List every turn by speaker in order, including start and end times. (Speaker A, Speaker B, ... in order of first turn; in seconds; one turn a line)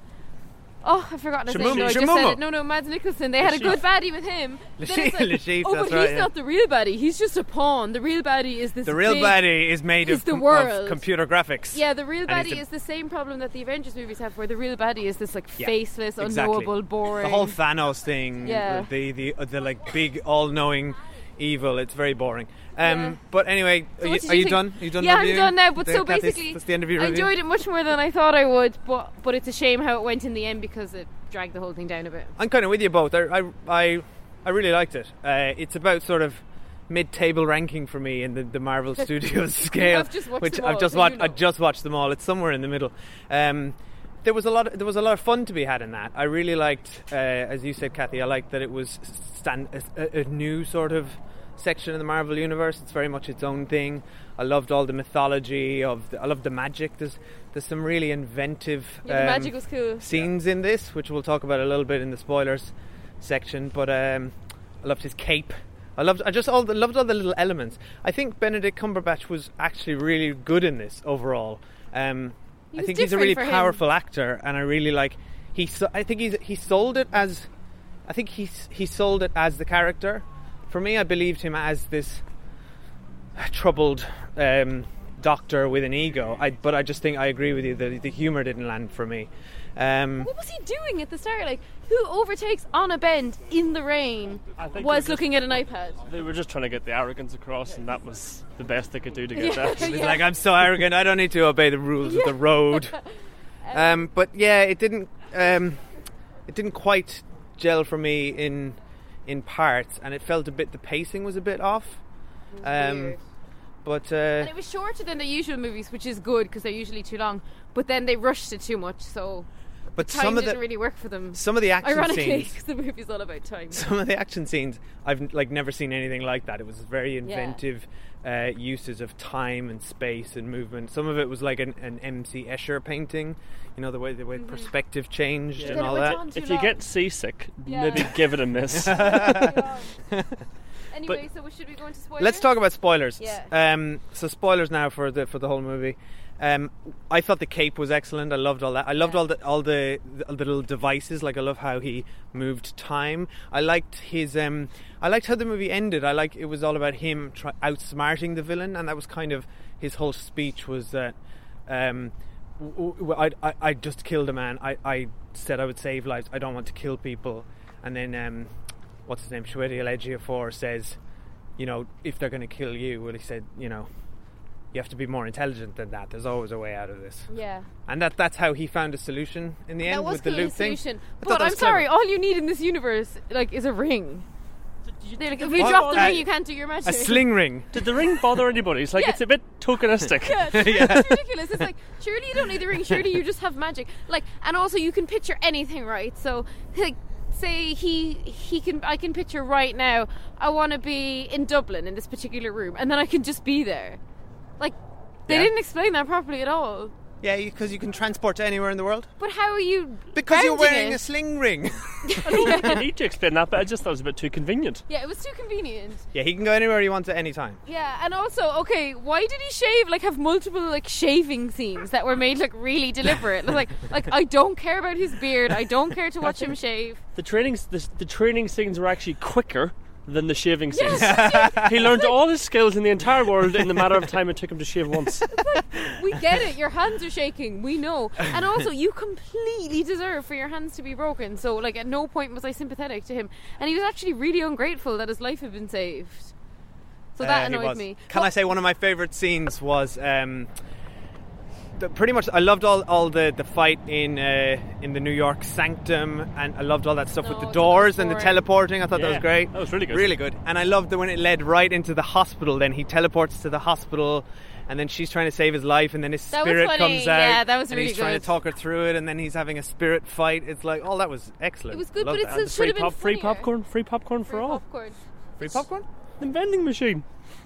Speaker A: 0.8-11.0
Speaker B: 1.5-2.4
Speaker C: 1.6-1.9
Speaker C: 3.4-3.8
Speaker B: 4.8-6.3
Speaker B: 8.8-12.6
Speaker A: 11.7-17.6
Speaker B: 15.6-27.3
Speaker A: 18.4-18.9
Speaker A: 22.8-23.2
Speaker A: 24.0-32.3
Speaker B: 32.4-77.5
Speaker A: 39.7-41.4
Speaker A: 59.0-60.0
Speaker A: 72.7-73.8
Speaker B: 78.1-82.2
Speaker B: 83.3-90.3
Speaker A: 90.2-96.0
Speaker C: 94.6-95.4
Speaker C: 96.0-100.0
Speaker A: 99.3-100.3
Speaker B: 99.7-103.0
Speaker A: 102.0-103.0
Speaker A: 103.6-104.1
Speaker B: 103.7-105.8
Speaker B: 106.5-112.0
Speaker A: 112.5-113.2
Speaker B: 112.6-113.2
Speaker B: 113.8-114.5
Speaker A: 114.4-123.8
Speaker B: 119.9-120.6
Speaker B: 121.3-122.6
Speaker B: 123.7-136.2
Speaker A: 127.2-127.6
Speaker A: 134.3-134.7
Speaker C: 135.6-139.5
Speaker A: 135.6-136.8
Speaker A: 137.6-138.2
Speaker B: 138.7-139.6
Speaker A: 138.9-140.0
Speaker B: 140.1-140.4
Speaker A: 140.9-142.5
Speaker B: 142.2-161.1
Speaker A: 143.2-143.5
Speaker B: 161.7-168.5
Speaker B: 169.1-171.0
Speaker B: 171.6-173.9
Speaker B: 174.7-177.3
Speaker A: 177.3-177.7
Speaker B: 177.9-181.9
Speaker A: 179.8-184.2
Speaker C: 185.0-186.2
Speaker A: 185.2-187.3
Speaker B: 185.6-186.3
Speaker B: 186.8-187.8
Speaker C: 187.7-190.8
Speaker A: 188.9-189.2
Speaker A: 190.2-204.0
Speaker B: 190.5-191.2
Speaker A: 204.6-206.9
Speaker B: 207.2-209.1
Speaker A: 209.2-211.0
Speaker B: 210.1-212.8
Speaker A: 212.1-212.8
Speaker C: 212.2-214.8
Speaker A: 214.9-216.0
Speaker B: 216.1-217.6
Speaker A: 217.7-227.0
Speaker C: 227.1-235.3
Speaker A: 230.7-232.1
Speaker B: 230.9-231.9
Speaker A: 235.3-246.3
Speaker A: 247.2-248.3
Speaker B: 247.2-250.5
Speaker B: 251.8-272.4
Speaker A: 257.2-258.4
Speaker C: 258.9-260.1
Speaker A: 266.3-268.3
Speaker A: 271.7-273.5
Speaker C: 272.3-274.6
Speaker A: 274.3-275.0
Speaker B: 275.4-275.9
Speaker C: 276.2-277.0